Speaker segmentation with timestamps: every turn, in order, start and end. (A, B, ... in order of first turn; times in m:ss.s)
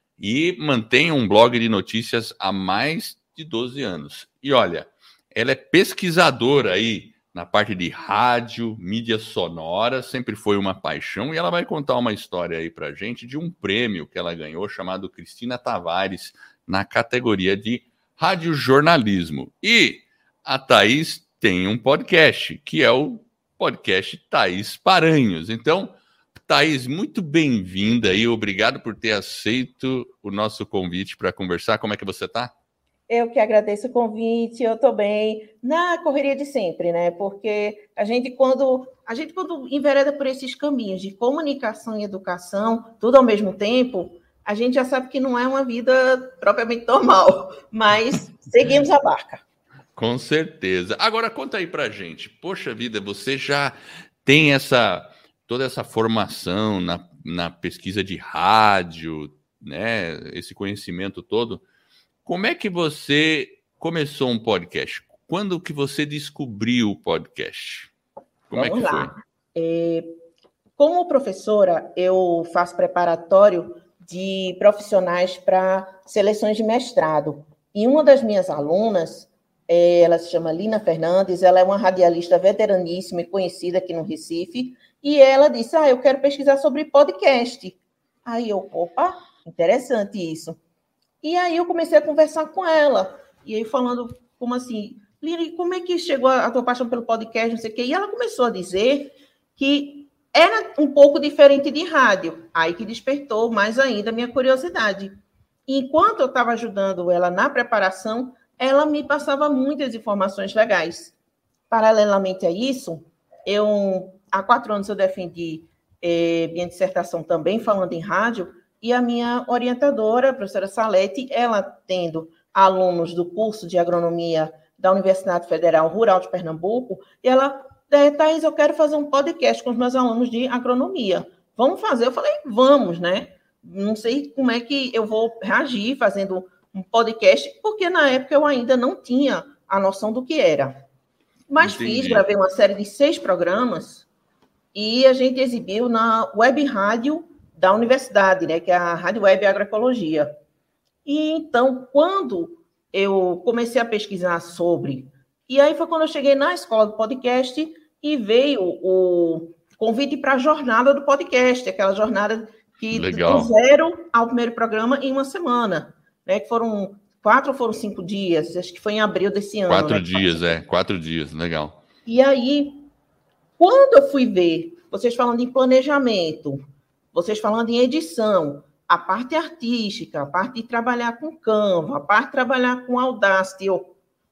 0:00.2-0:32.5 A
0:33.1-0:49.4 B
0:50.0-1:01.6 A
1:02.2-1:07.9 A
1:08.5-1:09.1 A
1:08.5-1:10.1 B
1:10.8-1:30.6 B
1:31.2-1:45.1 B
1:45.7-1:51.2 B
1:51.7-2:20.8 B
2:21.5-2:24.0 B
2:21.6-2:22.3 A
2:24.7-2:30.3 B
2:31.0-2:50.6 B
2:42.9-2:43.5 A
2:49.7-2:51.8 A
2:52.1-2:52.9 B
2:53.6-2:56.6 B
2:57.1-3:03.9 B